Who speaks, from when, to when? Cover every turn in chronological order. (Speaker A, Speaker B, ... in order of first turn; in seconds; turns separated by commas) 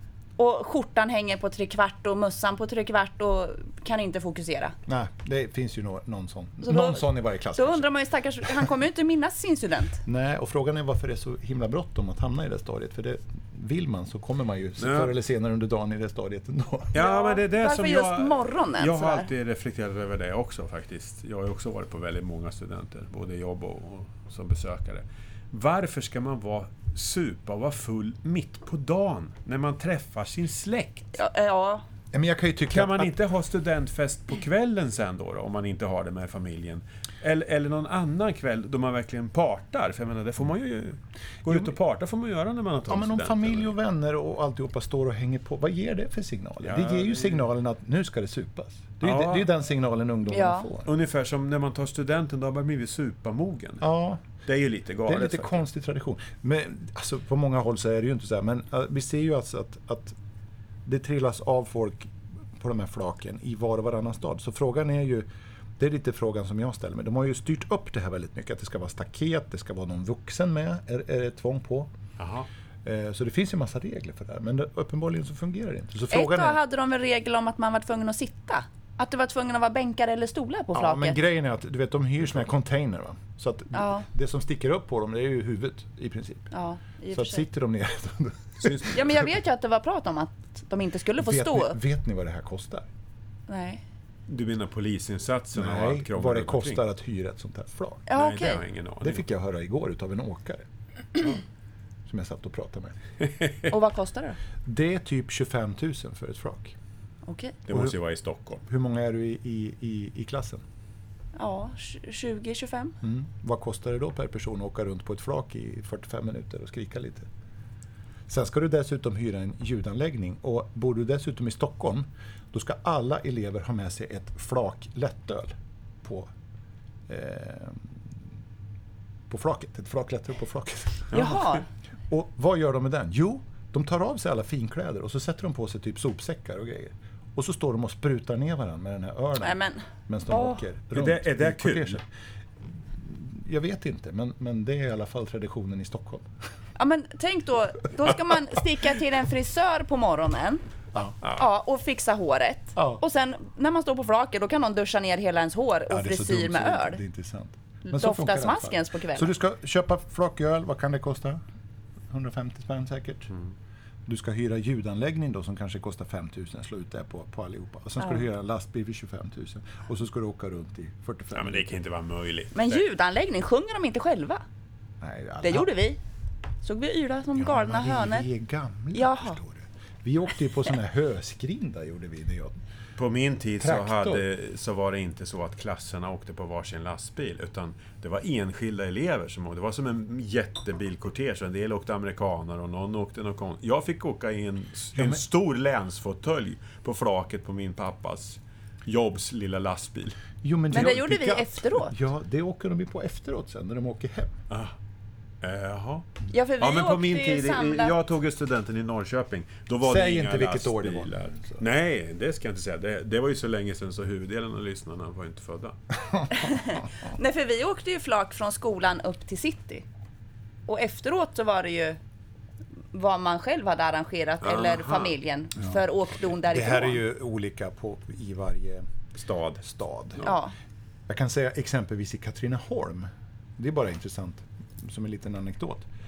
Speaker A: 0.4-4.7, Speaker B: 4.8-7.9, Speaker A: 6.6-10.0, Speaker B: 10.0-17.0, Speaker C: 14.8-15.1, Speaker C: 16.9-31.2, Speaker A: 17.0-19.3, Speaker A: 31.1-31.8, Speaker B: 32.1-33.1, Speaker C: 32.7-43.7, Speaker B: 42.9-50.9, Speaker C: 46.6-47.4, Speaker C: 49.0-49.5, Speaker A: 50.3-50.7, Speaker C: 50.8-53.8, Speaker B: 53.8-54.2, Speaker C: 54.4-55.6, Speaker B: 55.1-60.1, Speaker B: 60.9-65.3, Speaker B: 65.8-71.9, Speaker C: 72.2-72.5, Speaker B: 72.8-76.6, Speaker A: 76.1-81.2, Speaker B: 80.7-86.5, Speaker A: 83.7-84.0, Speaker A: 86.5-87.4, Speaker B: 87.1-89.3, Speaker C: 88.6-89.2, Speaker A: 88.9-91.8, Speaker B: 91.2-92.8, Speaker A: 93.5-93.8, Speaker C: 94.3-96.8, Speaker B: 95.5-98.1, Speaker A: 98.1-98.6, Speaker C: 98.2-99.2, Speaker B: 99.0-100.6, Speaker B: 102.0-102.9, Speaker A: 103.7-104.4, Speaker B: 104.7-106.8, Speaker A: 107.2-107.6, Speaker C: 107.7-108.6, Speaker B: 108.7-110.6, Speaker A: 111.3-112.9, Speaker B: 113.0-117.3, Speaker B: 118.3-126.3, Speaker B: 127.1-127.9, Speaker B: 129.3-131.5, Speaker A: 131.1-131.6, Speaker B: 132.1-142.0, Speaker A: 139.4-140.6, Speaker C: 140.9-142.0, Speaker B: 143.0-146.2, Speaker A: 146.8-150.6, Speaker A: 151.3-157.0, Speaker B: 152.8-153.0, Speaker B: 155.9-161.4, Speaker A: 157.8-159.3, Speaker B: 162.1-163.3, Speaker B: 164.1-171.7, Speaker C: 171.3-172.8, Speaker A: 172.5-174.4, Speaker B: 175.0-175.7, Speaker A: 175.4-176.0, Speaker A: 176.6-178.3, Speaker B: 177.3-182.6, Speaker A: 178.9-179.4, Speaker C: 183.0-200.2, Speaker B: 183.6-184.2, Speaker B: 194.9-195.2, Speaker B: 200.4-204.3, Speaker A: 200.7-201.9, Speaker C: 204.5-204.7, Speaker C: 205.4-215.8, Speaker A: 206.3-207.9, Speaker B: 209.8-211.6, Speaker A: 216.3-219.8, Speaker A: 220.7-222.0, Speaker A: 222.9-227.0, Speaker C: 224.4-225.2, Speaker B: 226.4-228.9, Speaker C: 229.1-229.6, Speaker B: 229.6-230.3, Speaker A: 230.2-230.5, Speaker B: 231.1-235.9